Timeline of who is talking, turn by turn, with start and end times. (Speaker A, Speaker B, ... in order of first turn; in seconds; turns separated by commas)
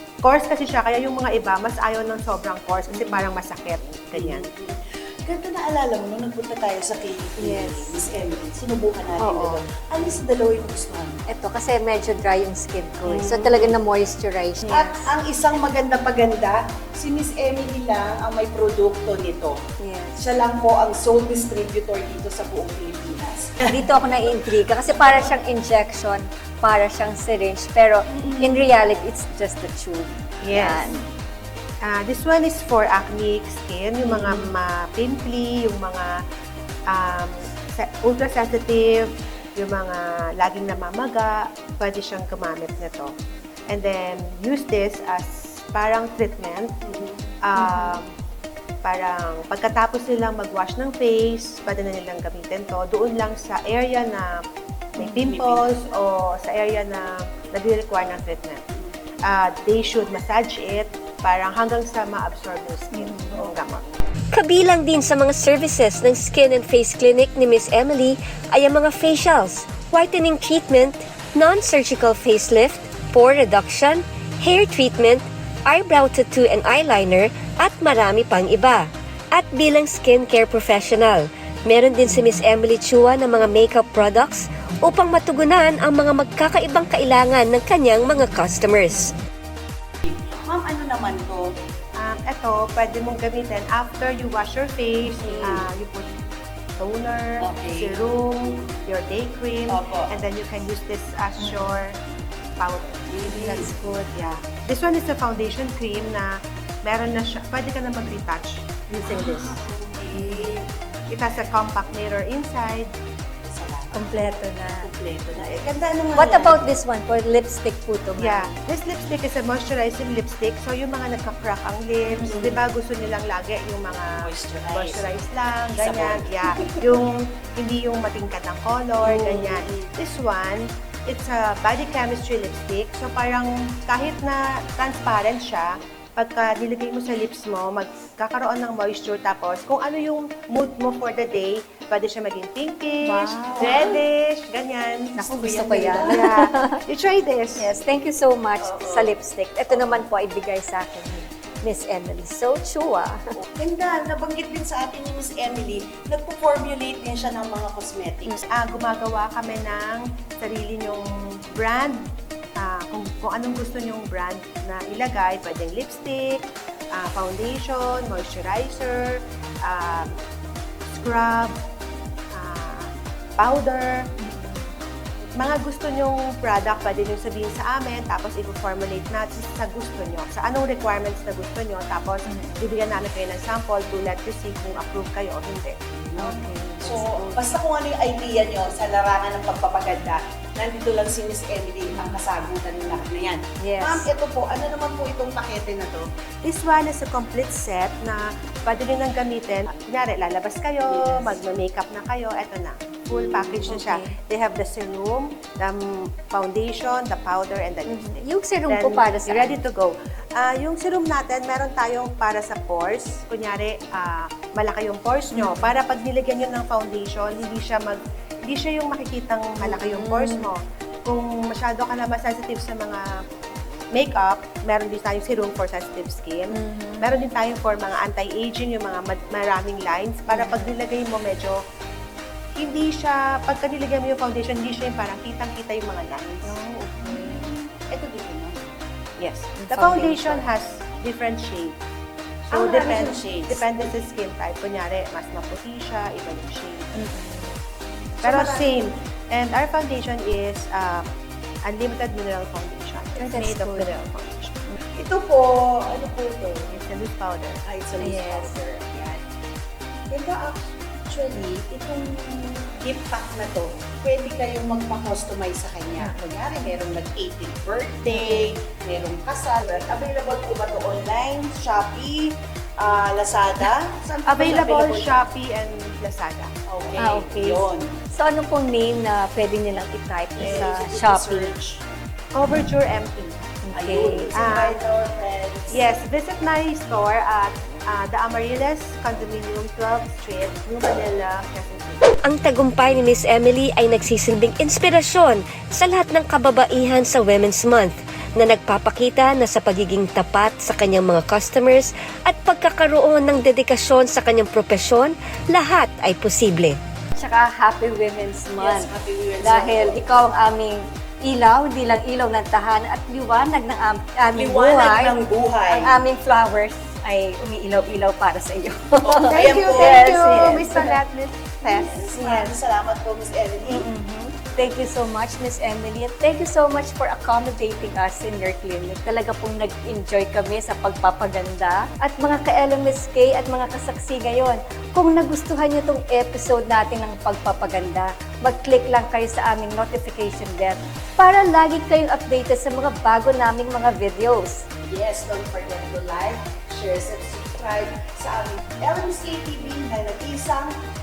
Speaker A: 0.2-4.4, Speaker B: 2.9-3.3, Speaker C: 4.1-11.2, Speaker B: 7.4-8.1, Speaker B: 9.2-9.6, Speaker B: 11.3-15.1, Speaker C: 13.0-13.8, Speaker C: 14.7-19.6, Speaker B: 19.8-20.3, Speaker C: 20.2-23.7, Speaker B: 23.6-31.0, Speaker C: 28.1-28.6, Speaker A: 30.4-30.9, Speaker A: 31.8-36.2, Speaker B: 34.0-34.5, Speaker A: 36.9-43.1, Speaker A: 43.7-46.7, Speaker C: 46.8-47.2, Speaker A: 47.5-48.1, Speaker B: 47.5-48.0, Speaker A: 48.8-54.4, Speaker A: 54.9-58.6, Speaker B: 55.0-55.3, Speaker C: 55.2-55.6, Speaker A: 59.3-63.8, Speaker B: 62.9-63.3, Speaker D: 64.3-89.1, Speaker C: 90.0-91.4, Speaker A: 92.0-96.1, Speaker B: 95.2-95.6, Speaker C: 95.2-95.6, Speaker A: 96.8-102.0, Speaker C: 97.4-98.7, Speaker C: 99.7-100.1, Speaker B: 101.4-101.8, Speaker A: 102.6-103.0, Speaker C: 103.1-103.7, Speaker B: 103.3-104.1, Speaker A: 104.1-106.3, Speaker A: 106.8-109.6, Speaker C: 109.0-110.7, Speaker B: 110.1-110.6, Speaker A: 111.1-112.9, Speaker C: 113.4-114.0, Speaker B: 113.9-114.9, Speaker C: 114.8-116.6, Speaker B: 116.1-118.5, Speaker A: 118.2-147.7, Speaker C: 122.2-122.6, Speaker C: 124.2-125.0, Speaker C: 125.7-127.0, Speaker C: 129.0-129.9, Speaker B: 143.1-143.8, Speaker C: 143.5-144.0, Speaker B: 145.2-146.8, Speaker C: 145.4-146.2, Speaker B: 147.6-153.2, Speaker C: 148.6-149.1, Speaker C: 149.7-150.0, Speaker C: 153.6-158.4, Speaker A: 158.4-161.0, Speaker A: 161.5-162.0, Speaker A: 162.6-166.4, Speaker A: 166.9-170.2, Speaker A: 170.9-171.5, Speaker A: 172.3-174.1, Speaker B: 174.2-174.7, Speaker A: 175.4-185.8, Speaker B: 182.3-182.7, Speaker C: 186.0-196.1, Speaker B: 186.2-187.5, Speaker B: 191.9-192.2, Speaker B: 193.6-194.1, Speaker A: 196.4-223.0, Speaker C: 200.8-201.3, Speaker C: 203.1-203.8, Speaker B: 203.3-204.1, Speaker B: 207.9-209.6, Speaker B: 215.3-215.7, Speaker B: 219.6-220.4, Speaker A: 223.9-231.6, Speaker B: 226.5-227.1, Speaker B: 230.3-230.8, Speaker A: 232.5-236.6, Speaker B: 236.4-237.5, Speaker C: 237.0-238.7, Speaker A: 239.2-241.8, Speaker B: 239.6-240.5, Speaker A: 242.5-246.9, Speaker C: 242.5-243.7, Speaker B: 246.9-247.6, Speaker C: 248.2-248.7, Speaker A: 248.2-251.1, Speaker A: 251.7-254.7, Speaker B: 253.2-253.9, Speaker C: 254.9-256.7, Speaker A: 256.7-257.6, Speaker C: 257.6-259.2, Speaker B: 258.0-258.5, Speaker C: 260.1-275.2, Speaker B: 266.0-266.2, Speaker B: 268.1-268.6, Speaker A: 274.2-276.5, Speaker C: 276.7-277.9, Speaker B: 277.0-281.5, Speaker C: 280.4-281.8, Speaker A: 282.3-283.4, Speaker B: 283.6-284.4, Speaker C: 283.7-285.8, Speaker A: 284.3-284.8, Speaker A: 285.7-292.1, Speaker D: 292.2-306.8, Speaker B: 307.1-308.9, Speaker C: 308.6-310.1, Speaker B: 309.4-315.2, Speaker C: 314.3-315.9, Speaker B: 315.7-321.0, Speaker C: 319.0-320.8, Speaker A: 319.3-321.9, Speaker C: 321.6-323.9, Speaker B: 322.1-322.5, Speaker B: 323.6-344.6, Speaker C: 344.9-350.7